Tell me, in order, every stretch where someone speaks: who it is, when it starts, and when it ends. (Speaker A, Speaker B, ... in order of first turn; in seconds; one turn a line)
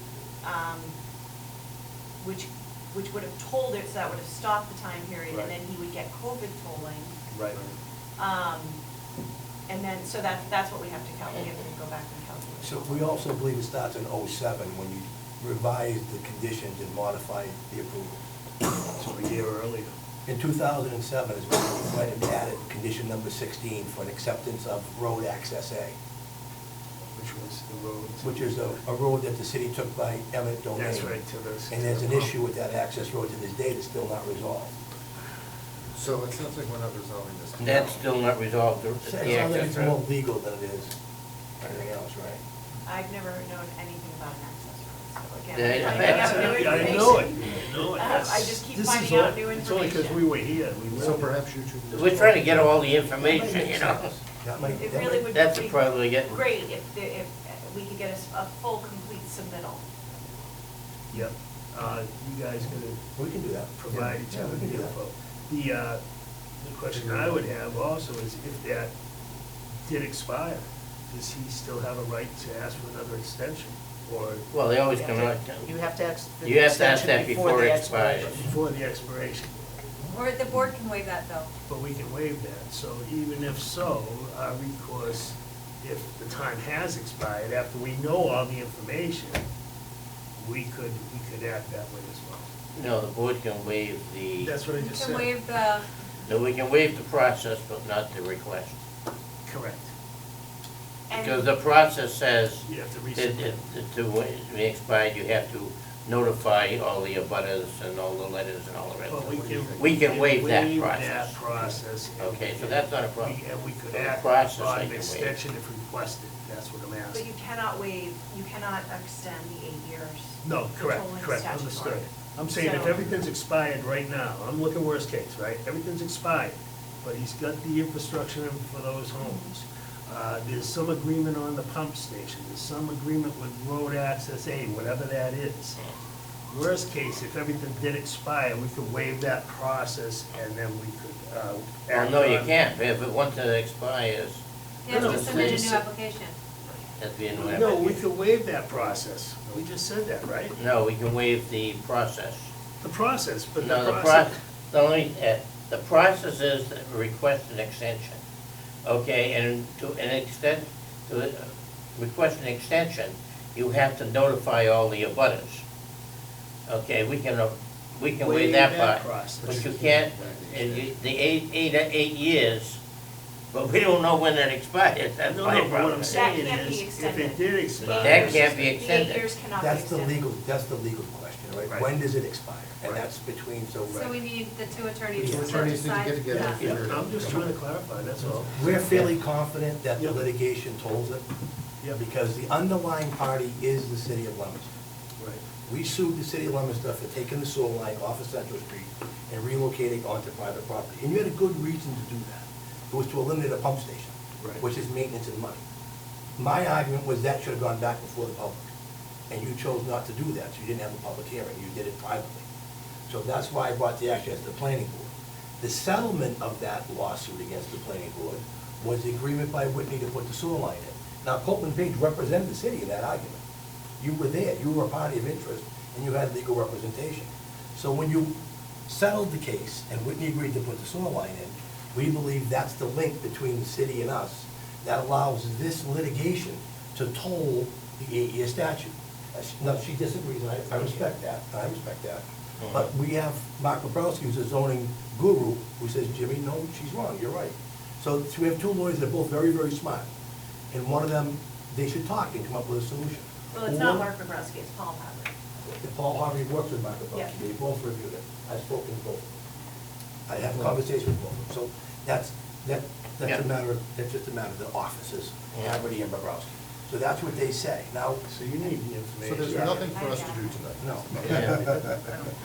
Speaker A: 0.4-0.9
Speaker A: 2.2-7.2
Speaker B: 7.3-7.7
Speaker A: 8.2-8.8
Speaker A: 9.7-13.2
Speaker C: 12.6-18.2
Speaker B: 19.0-19.9
Speaker C: 20.2-25.9
Speaker B: 27.1-28.8
Speaker C: 28.2-31.2
Speaker B: 30.7-32.3
Speaker C: 31.7-34.7
Speaker D: 35.9-38.0
Speaker C: 37.6-37.9
Speaker E: 37.6-40.0
Speaker C: 39.0-40.9
Speaker C: 41.6-42.4
Speaker A: 42.9-50.2
Speaker E: 45.5-46.8
Speaker B: 45.9-51.3
Speaker D: 50.9-52.8
Speaker E: 51.9-54.1
Speaker C: 53.2-55.3
Speaker A: 54.7-59.9
Speaker E: 55.3-56.4
Speaker B: 61.1-63.0
Speaker C: 63.2-64.9
Speaker B: 63.8-66.0
Speaker B: 66.6-68.9
Speaker B: 69.8-74.5
Speaker E: 74.5-75.7
Speaker F: 75.1-78.5
Speaker E: 76.4-78.4
Speaker B: 78.2-79.5
Speaker G: 80.1-81.5
Speaker B: 81.7-89.4
Speaker B: 90.4-92.5
Speaker E: 92.7-94.5
Speaker B: 94.4-95.3
Speaker G: 94.7-95.8
Speaker E: 96.2-98.8
Speaker B: 99.5-99.9
Speaker A: 101.1-101.5
Speaker E: 101.1-111.3
Speaker B: 102.6-103.6
Speaker B: 109.1-117.2
Speaker D: 109.3-109.8
Speaker E: 112.2-115.4
Speaker A: 117.1-123.0
Speaker B: 120.4-135.8
Speaker A: 129.2-129.5
Speaker B: 136.5-142.6
Speaker E: 141.9-145.7
Speaker G: 144.8-146.3
Speaker B: 144.9-145.8
Speaker E: 147.0-148.0
Speaker B: 147.3-150.6
Speaker E: 150.6-152.5
Speaker B: 152.8-154.4
Speaker E: 153.6-158.2
Speaker E: 158.8-165.6
Speaker E: 166.7-172.8
Speaker B: 168.1-169.8
Speaker D: 169.4-171.0
Speaker E: 173.5-176.3
Speaker B: 175.2-178.8
Speaker A: 176.1-180.2
Speaker E: 177.9-179.3
Speaker C: 179.6-184.2
Speaker G: 183.9-187.1
Speaker D: 185.1-187.5
Speaker C: 185.2-185.6
Speaker B: 186.5-189.1
Speaker C: 188.5-191.2
Speaker B: 190.0-190.2
Speaker C: 191.9-194.7
Speaker B: 195.2-195.4
Speaker C: 195.7-205.6
Speaker C: 206.4-208.7
Speaker C: 209.3-212.4
Speaker C: 213.1-223.4
Speaker C: 224.0-228.3
Speaker C: 228.9-250.1
Speaker E: 242.6-242.9
Speaker C: 250.7-254.1
Speaker A: 253.5-255.3
Speaker C: 255.6-259.3
Speaker C: 260.3-268.2
Speaker E: 265.5-265.8
Speaker B: 268.3-270.0
Speaker D: 269.2-272.0
Speaker A: 269.7-270.5
Speaker C: 270.8-271.8
Speaker B: 271.2-272.3
Speaker E: 271.3-271.6